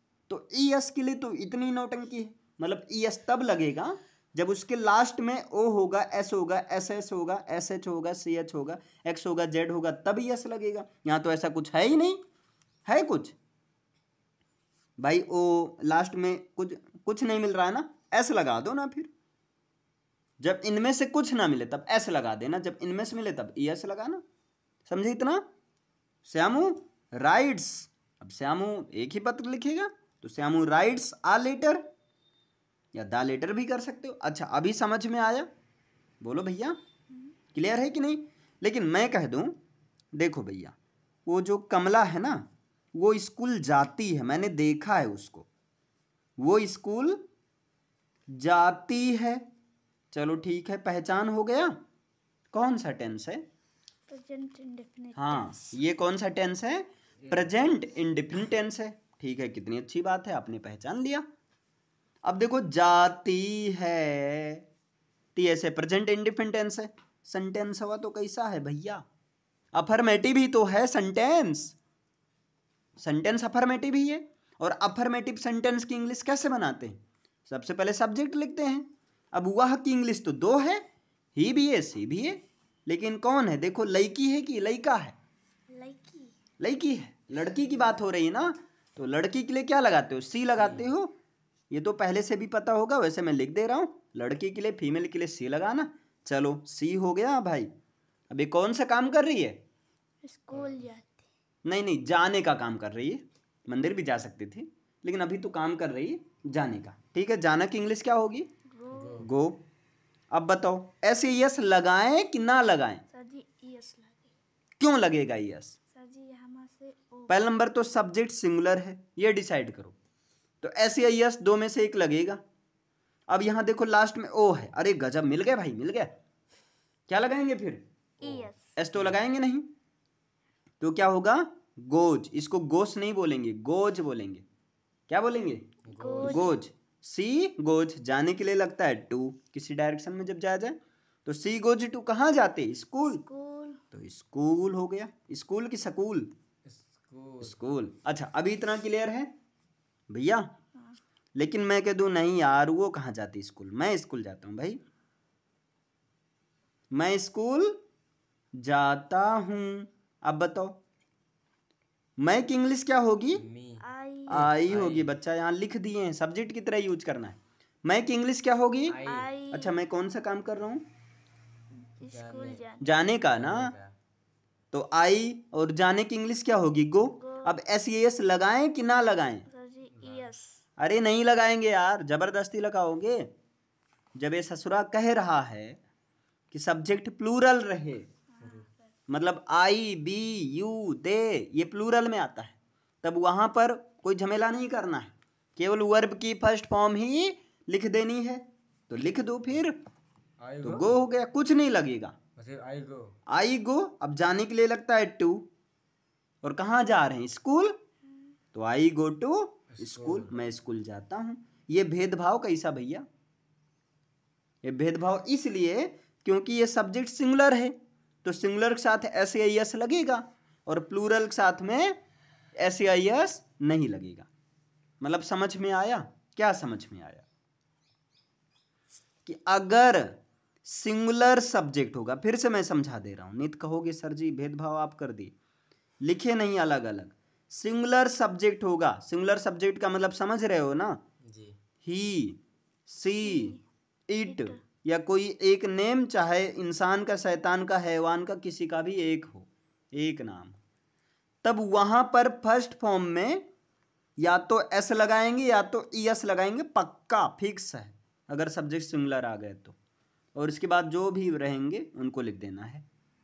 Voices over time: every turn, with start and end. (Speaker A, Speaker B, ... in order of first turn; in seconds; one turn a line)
Speaker A: 0.3-12.2
Speaker A: 12.9-13.3
Speaker A: 15.0-19.1
Speaker A: 20.4-24.2
Speaker A: 24.9-25.4
Speaker A: 26.2-31.8
Speaker A: 32.9-35.5
Speaker A: 36.2-36.8
Speaker A: 37.5-39.5
Speaker A: 40.1-40.7
Speaker A: 41.2-45.5
Speaker A: 46.4-47.2
Speaker A: 48.3-49.4
Speaker A: 50.1-51.7
Speaker A: 52.5-53.4
Speaker B: 54.1-55.8
Speaker A: 55.1-61.2
Speaker A: 62.2-64.6
Speaker A: 65.3-69.0
Speaker A: 69.7-71.8
Speaker A: 73.0-80.8
Speaker A: 81.3-85.1
Speaker B: 85.7-86.3
Speaker A: 86.6-91.1
Speaker A: 91.7-97.7
Speaker A: 98.3-99.6
Speaker B: 100.2-101.2
Speaker C: 100.5-100.8
Speaker A: 101.7-108.5
Speaker B: 108.7-109.2
Speaker C: 108.9-109.3
Speaker A: 109.1-109.6
Speaker A: 110.3-113.0
Speaker B: 113.1-114.3
Speaker A: 114.8-115.8
Speaker B: 115.9-117.5
Speaker A: 117.3-119.9
Speaker A: 120.6-122.4
Speaker A: 123.3-126.1
Speaker A: 127.1-127.8
Speaker B: 128.2-128.7
Speaker C: 128.2-129.0
Speaker A: 128.7-129.7
Speaker A: 130.8-134.4
Speaker A: 135.1-135.7
Speaker C: 135.9-136.4
Speaker B: 135.9-136.6
Speaker A: 136.2-143.2
Speaker B: 143.0-143.8
Speaker A: 143.9-146.3
Speaker C: 146.7-147.6
Speaker A: 147.4-149.3
Speaker A: 150.1-150.4
Speaker A: 151.3-154.8
Speaker A: 156.9-157.8
Speaker A: 158.6-160.8
Speaker A: 162.2-163.4
Speaker C: 163.3-165.1
Speaker B: 163.8-164.5
Speaker A: 164.3-169.0
Speaker C: 168.9-169.3
Speaker B: 169.0-169.8
Speaker A: 169.5-170.8
Speaker C: 172.0-172.6
Speaker B: 172.0-173.0
Speaker A: 172.8-173.7
Speaker C: 173.3-173.9
Speaker A: 174.7-179.5
Speaker B: 177.2-177.5
Speaker B: 179.5-180.6
Speaker C: 180.0-180.2
Speaker A: 180.8-183.3
Speaker A: 184.2-185.8
Speaker A: 186.5-188.1
Speaker B: 188.3-188.9
Speaker A: 189.1-199.8
Speaker C: 200.4-200.9
Speaker A: 200.6-202.1
Speaker C: 202.4-203.2
Speaker A: 203.3-205.4
Speaker A: 206.4-207.8
Speaker A: 208.5-213.0
Speaker C: 209.7-210.3
Speaker A: 214.6-222.0
Speaker A: 222.6-224.3
Speaker A: 225.0-227.2
Speaker A: 229.2-235.3
Speaker A: 236.0-241.0
Speaker C: 241.2-241.6
Speaker A: 241.8-243.5
Speaker B: 243.2-243.6
Speaker A: 244.1-250.6
Speaker B: 244.2-244.6
Speaker A: 251.4-253.4
Speaker A: 254.2-259.8
Speaker A: 260.4-262.8